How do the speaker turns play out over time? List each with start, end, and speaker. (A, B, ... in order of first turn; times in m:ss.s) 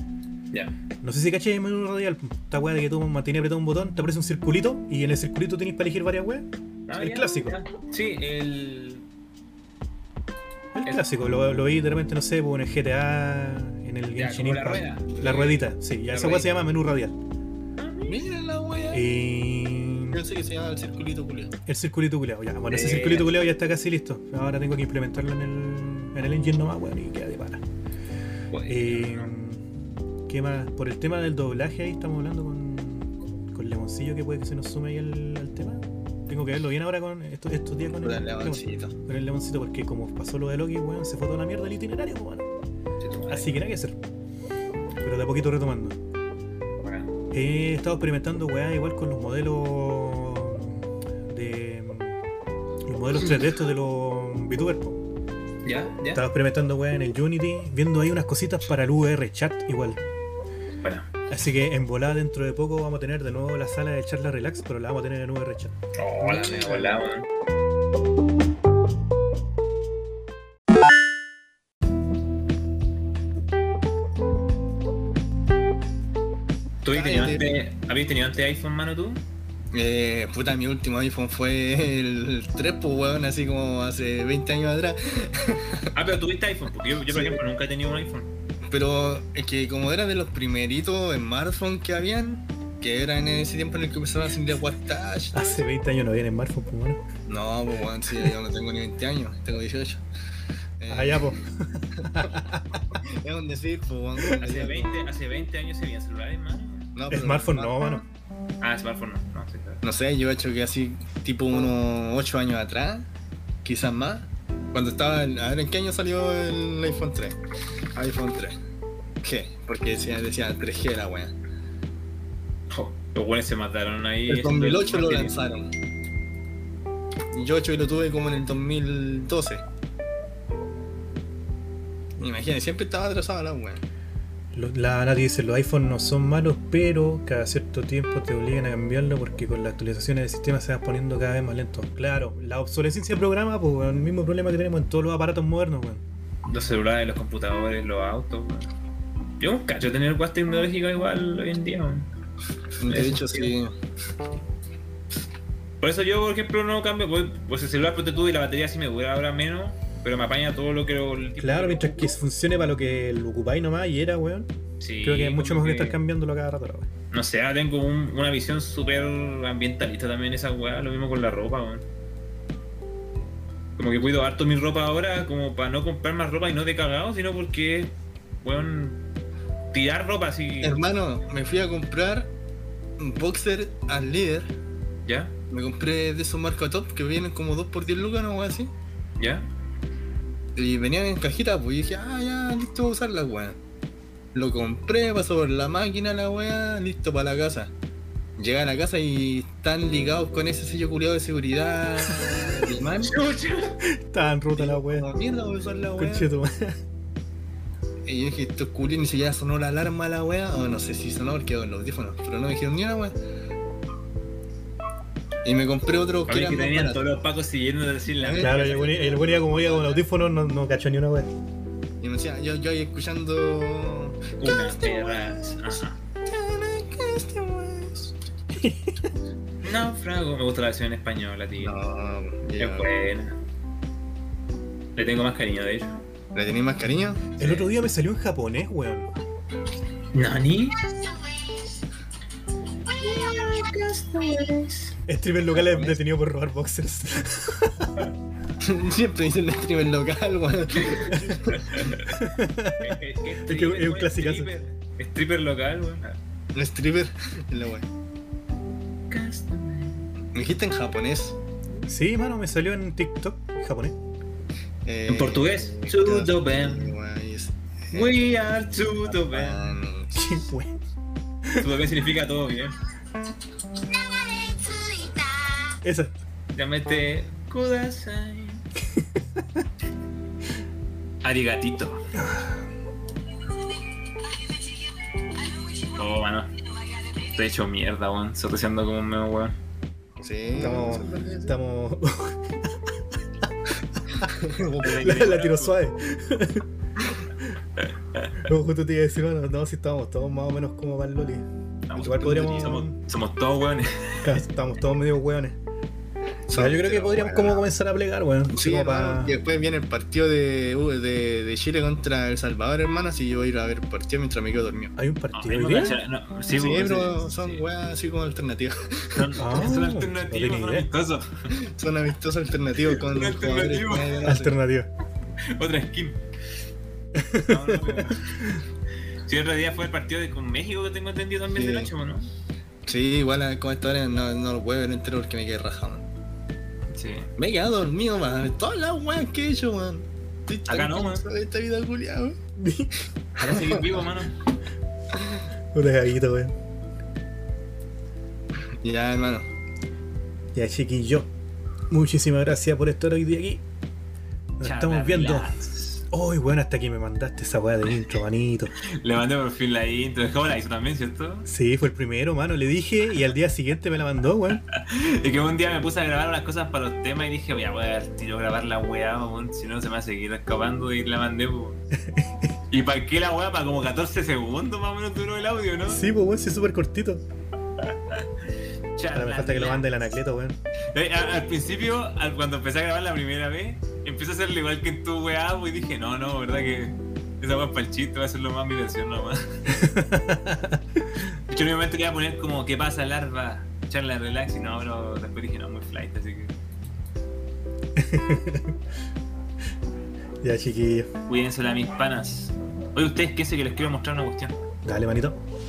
0:01.0-0:07.6 A
0:06.9-0:09.1 B
0:10.8-0:17.2 A
0:14.2-0:16.7 B
0:17.8-0:18.3 B
0:18.1-0:19.1 C
0:18.9-0:20.2 A
0:20.1-0:21.5 C
0:21.7-0:27.6 A
0:22.7-0:23.3 B
0:28.5-0:29.3 B
0:28.7-0:29.6 A
0:30.3-0:42.5 A
0:38.0-0:38.9 C
0:43.0-0:43.5 B
0:43.3-0:44.0 A
0:45.0-0:46.0 A
0:46.8-0:47.1 B
0:47.3-0:52.2 A
0:52.8-0:55.0 A
0:55.6-0:56.2 B
0:56.1-1:00.0 A
1:00.8-1:01.1 B
1:01.3-1:07.0 A
1:06.0-1:07.3 B
1:16.8-1:19.2 B
1:16.9-1:17.6 C
1:19.7-1:25.9 C
1:25.9-1:28.3 B
1:27.1-1:27.4 C
1:28.7-1:35.6 C
1:35.3-1:37.0 A
1:37.3-1:40.0 C
1:40.8-1:41.4 C
1:40.9-1:43.0 A
1:42.0-1:45.1 C
1:44.4-1:46.9 B
1:47.0-1:47.8 C
1:47.1-1:48.1 A
1:48.6-1:49.8 B
1:49.8-1:53.1 C
1:53.6-1:57.4 C
1:58.0-1:58.6 C
1:59.2-2:01.3 C
2:02.7-2:05.4 B
2:04.3-2:05.7 C
2:07.3-2:09.6 C
2:12.2-2:13.8 C
2:14.5-2:26.0 A
2:26.5-2:28.7 B
2:29.4-2:32.1 B
2:32.8-2:33.7 C
2:32.9-2:33.5 B
2:35.8-2:42.1 B
2:41.4-2:44.5 A
2:44.8-2:46.0 B
2:45.0-2:46.9 A
2:47.1-2:51.9 B
2:53.8-2:59.0 B
2:59.7-3:00.8 B
3:00.6-3:02.3 C
3:03.0-3:04.5 C
3:05.0-3:05.3 B
3:05.5-3:08.7 C
3:09.2-3:09.5 B
3:10.6-3:13.6 C
3:14.3-3:17.7 C
3:18.4-3:23.1 C
3:23.0-3:23.8 B
3:23.9-3:25.1 A
3:24.6-3:26.3 C
3:26.0-3:26.8 A
3:28.1-3:33.1 C
3:35.4-3:37.2 C
3:36.3-3:39.8 B
3:38.2-3:40.0 C
3:38.4-3:41.3 A
3:42.0-3:48.1 C
3:44.4-3:46.0 B
3:48.6-3:49.1 A
3:49.6-3:51.8 B
3:51.6-3:52.9 C
3:52.6-3:53.4 B
3:55.0-3:56.0 B
3:56.3-3:57.2 C
3:57.4-3:59.1 A
3:57.4-3:57.7 B
4:00.1-4:01.1 B
4:02.9-4:05.0 B
4:05.1-4:08.1 A
4:05.6-4:06.0 B
4:08.6-4:11.9 C
4:10.8-4:12.2 B
4:12.1-4:14.5 A
4:12.8-4:16.2 B
4:16.5-4:17.9 C
4:19.1-4:20.1 B
4:20.3-4:21.4 C
4:21.9-4:24.0 A
4:24.8-4:28.3 C
4:25.1-4:27.0 B
4:27.9-4:29.8 B
4:29.1-4:30.4 C
4:30.2-4:30.8 A
4:31.6-4:32.8 B
4:35.8-4:36.1 A
4:36.5-4:38.6 B
4:41.2-4:42.0 B
4:42.2-4:42.5 A
4:45.9-4:46.5 B
4:47.2-4:49.6 B
4:50.2-4:51.6 C
4:50.6-4:52.7 A
4:54.2-4:55.2 C
4:54.8-4:55.8 B
4:55.0-4:56.7 A
4:57.8-4:58.3 B
4:58.4-5:03.0 A
5:01.9-5:04.4 B
5:02.2-5:02.4 C
5:04.2-5:05.6 A
5:06.5-5:07.7 C
5:06.5-5:09.4 A
5:08.5-5:14.9 C
5:15.0-5:16.0 A
5:15.3-5:17.6 B
5:16.5-5:19.4 C
5:19.2-5:21.5 B
5:19.4-5:20.9 A
5:21.5-5:24.6 C
5:22.9-5:24.2 B
5:24.2-5:24.9 A
5:25.5-5:26.2 B
5:27.2-5:28.6 A
5:27.4-5:28.6 B
5:29.3-5:32.3 B
5:31.5-5:31.9 C
5:32.9-5:36.0 C
5:36.9-5:37.3 B
5:37.4-5:42.4 C
5:40.7-5:41.2 B
5:42.6-5:42.9 A
5:43.4-5:44.3 B
5:43.4-5:44.0 C
5:45.2-5:45.4 C
5:45.7-5:46.5 A
5:48.8-5:49.4 C
5:50.6-5:51.3 A
5:51.9-5:53.6 A
5:54.6-5:55.5 A
5:54.6-5:56.0 B
5:56.1-5:58.7 A
5:58.8-6:01.5 B
6:01.5-6:04.6 A
6:04.7-6:11.8 B
6:12.0-6:12.5 A
6:12.7-6:16.0 B
6:15.9-6:17.2 A
6:17.8-6:19.9 B
6:19.1-6:20.6 A
6:20.9-6:29.8 B
6:29.7-6:31.1 A
6:31.2-6:36.6 B
6:38.0-6:38.8 A
6:40.4-6:41.1 A
6:41.3-6:44.6 B
6:44.8-6:45.4 A